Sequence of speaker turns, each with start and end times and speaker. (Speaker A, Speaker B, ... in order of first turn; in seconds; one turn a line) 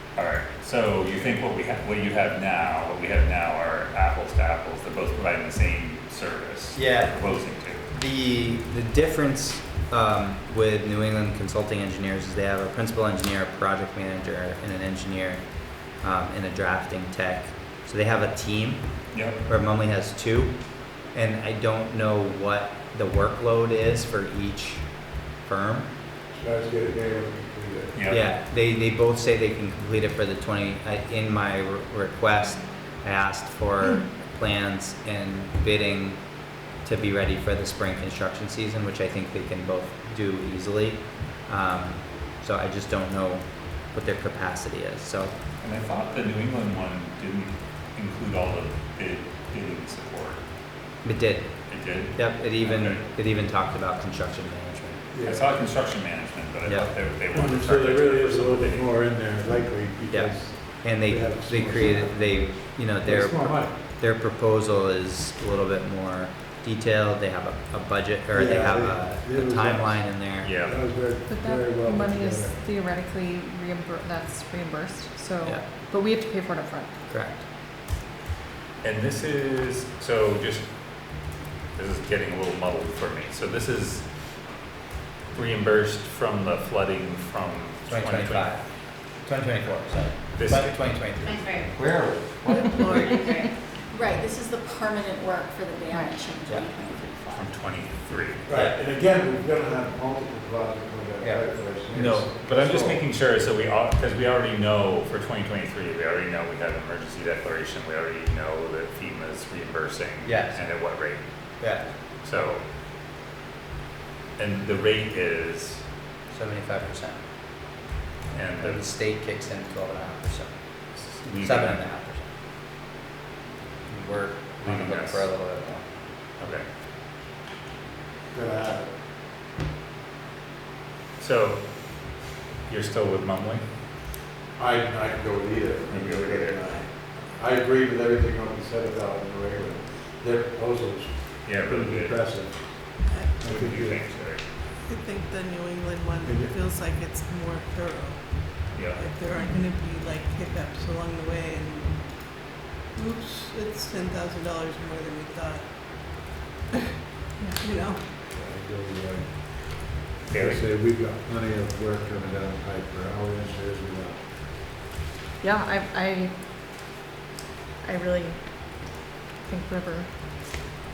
Speaker A: 0.2-7.9
Speaker B: 6.8-7.2
Speaker B: 7.8-15.4
Speaker B: 16.0-18.9
Speaker A: 19.1-19.4
Speaker B: 19.5-20.6
Speaker B: 21.1-24.9
Speaker B: 25.4-25.9
Speaker C: 26.3-28.0
Speaker A: 28.0-28.3
Speaker B: 28.1-36.2
Speaker B: 36.8-45.3
Speaker A: 45.6-50.4
Speaker B: 51.0-51.5
Speaker A: 51.7-53.1
Speaker B: 52.1-55.0
Speaker C: 55.1-55.5
Speaker A: 55.2-58.9
Speaker B: 56.6-56.9
Speaker C: 57.3-63.8
Speaker B: 60.1-70.5
Speaker C: 68.3-72.6
Speaker A: 70.4-70.8
Speaker D: 71.3-77.0
Speaker B: 77.1-77.4
Speaker A: 78.8-80.7
Speaker A: 81.8-84.0
Speaker A: 85.3-88.5
Speaker B: 87.9-88.7
Speaker B: 89.2-93.3
Speaker A: 90.3-90.8
Speaker E: 91.2-91.7
Speaker F: 92.5-93.5
Speaker E: 93.2-97.5
Speaker A: 97.3-98.5
Speaker C: 98.5-103.0
Speaker B: 98.5-98.8
Speaker A: 101.9-111.2
Speaker B: 110.2-110.6
Speaker B: 111.6-111.9
Speaker A: 112.2-112.6
Speaker A: 114.4-115.8
Speaker B: 116.3-117.2
Speaker A: 118.3-118.9
Speaker B: 118.6-120.5
Speaker A: 121.0-121.8
Speaker B: 121.4-122.3
Speaker B: 123.9-125.8
Speaker A: 124.6-125.2
Speaker A: 126.4-126.7
Speaker C: 128.3-128.9
Speaker A: 131.2-131.7
Speaker A: 132.7-133.6
Speaker C: 134.6-142.6
Speaker A: 135.9-136.7
Speaker A: 141.4-142.2
Speaker F: 143.1-143.4
Speaker C: 143.3-144.0
Speaker A: 143.4-144.4
Speaker F: 144.8-156.2
Speaker C: 146.2-146.5
Speaker A: 148.8-149.1
Speaker F: 157.6-158.0
Speaker C: 158.3-164.2
Speaker A: 160.3-160.6
Speaker D: 165.4-166.3
Speaker D: 167.8-170.1